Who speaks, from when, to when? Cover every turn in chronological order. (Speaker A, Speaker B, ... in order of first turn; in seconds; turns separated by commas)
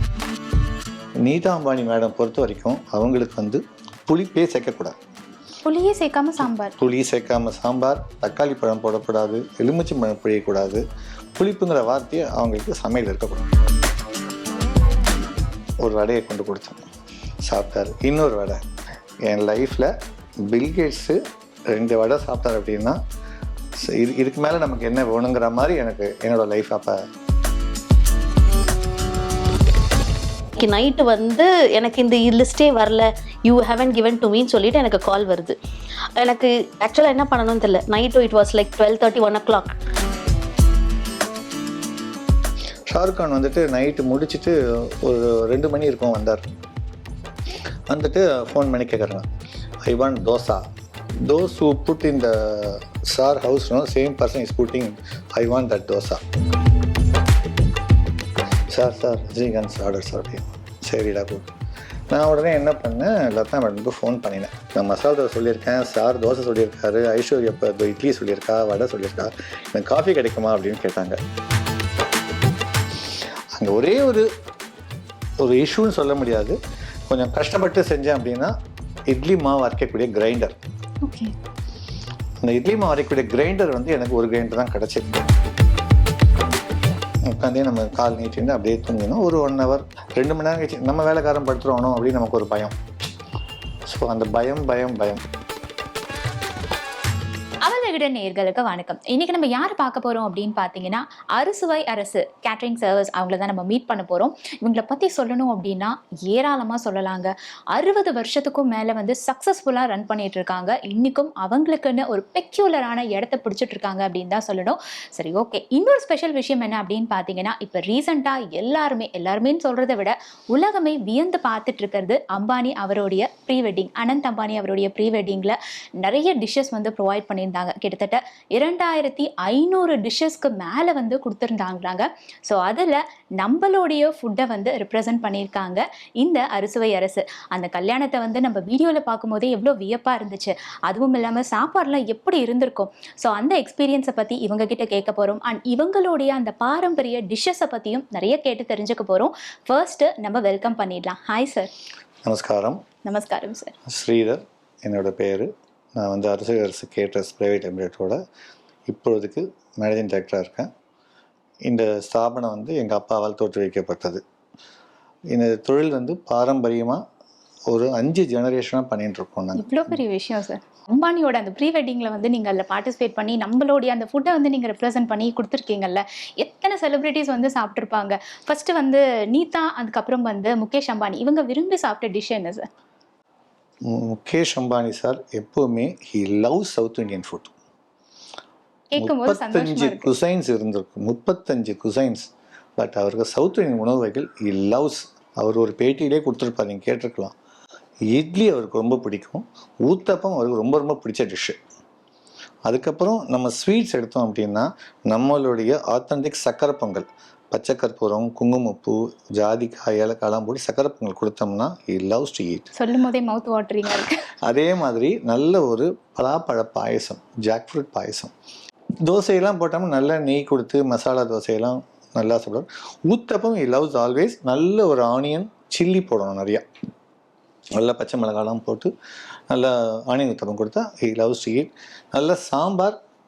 Speaker A: 1.2-4.9, Speaker B: 5.6-6.8, Speaker A: 6.8-10.8, Speaker A: 11.4-13.4, Speaker A: 15.8-16.8, Speaker A: 17.4-18.6, Speaker A: 19.2-19.9, Speaker A: 20.5-23.0, Speaker A: 23.8-27.0, Speaker C: 30.6-35.5, Speaker C: 36.2-39.7, Speaker A: 42.9-46.4, Speaker A: 47.9-49.2, Speaker A: 49.8-50.6, Speaker A: 51.2-56.2, Speaker A: 58.7-61.5, Speaker A: 62.1-71.2, Speaker A: 73.5-74.3, Speaker A: 75.4-76.6, Speaker A: 77.1-78.5, Speaker A: 79.1-80.5, Speaker B: 81.0-81.3, Speaker A: 82.4-85.2, Speaker A: 87.2-92.8, Speaker A: 93.9-95.2, Speaker B: 97.6-151.7, Speaker A: 152.2-152.8, Speaker B: 153.0-153.7, Speaker A: 153.8-158.2, Speaker A: 158.9-160.7, Speaker A: 161.6-164.2, Speaker A: 165.3-167.0, Speaker A: 167.7-169.9, Speaker B: 169.6-182.7, Speaker A: 183.8-187.5, Speaker B: 188.9-190.1, Speaker A: 189.0-197.3, Speaker A: 198.1-201.6, Speaker A: 202.7-212.7, Speaker B: 212.8-214.2, Speaker A: 214.4-218.3, Speaker A: 219.0-226.6, Speaker A: 227.7-228.9, Speaker A: 229.5-232.9